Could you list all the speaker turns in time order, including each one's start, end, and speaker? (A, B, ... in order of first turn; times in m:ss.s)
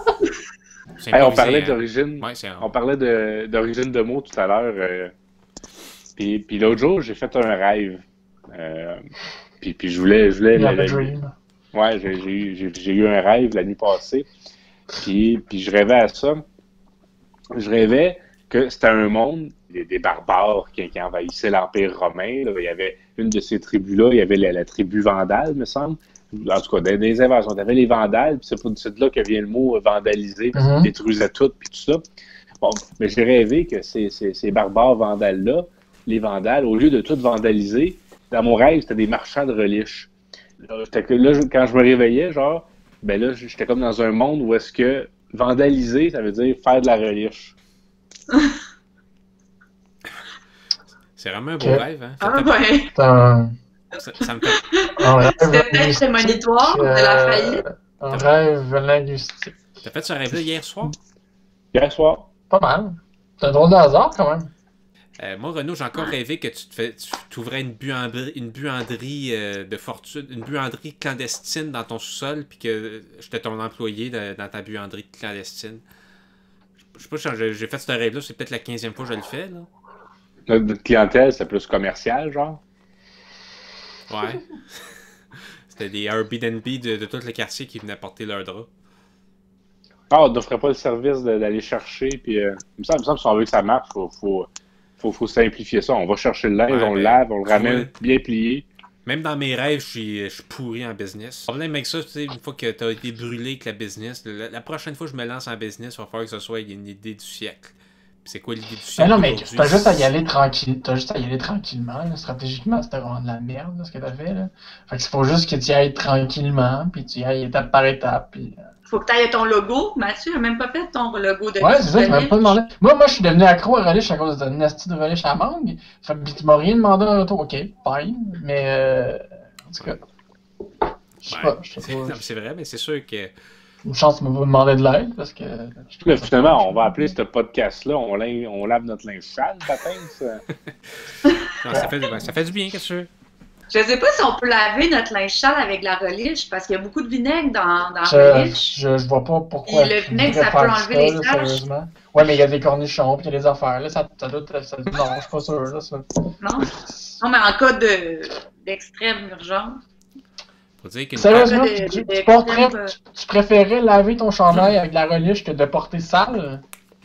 0:01.0-0:02.7 A
0:01.1-0:05.1 B
0:06.2-0:09.0 B
0:09.6-0:11.1 B
0:10.5-0:11.4 C
0:11.7-0:14.3 B
0:15.0-0:16.4 B
0:17.6-0:32.0 B
0:30.5-0:30.9 C
0:32.6-0:40.1 B
0:40.6-0:47.6 B
0:48.3-0:48.6 D
0:51.2-0:52.6 A
0:52.2-0:52.9 D
0:52.9-0:53.6 C
0:54.0-0:54.6 A
0:54.4-0:57.6 D
0:55.0-0:59.6 C
0:59.8-1:00.9 A
1:01.7-1:02.3 B
1:02.5-1:04.5 C
1:05.2-1:15.8 A
1:16.9-1:19.7 A
1:20.5-1:22.6 B
1:24.1-1:24.9 A
1:25.7-1:28.7 A
1:30.1-1:34.5 B
1:35.0-1:38.7 B
1:36.7-1:37.9 A
1:39.0-1:50.1 A
1:49.0-1:58.6 C
1:58.9-2:02.6 D
2:01.6-2:10.0 C
2:11.2-2:12.2 C
2:11.3-2:13.3 A
2:13.8-2:17.1 C
2:16.0-2:20.4 B
2:21.6-2:23.1 A
2:23.7-2:28.8 D
2:28.0-2:36.1 C
2:29.7-2:31.6 D
2:36.4-2:39.8 D
2:36.7-2:37.2 C
2:40.8-2:41.6 A
2:41.2-2:46.6 C
2:41.4-2:42.9 D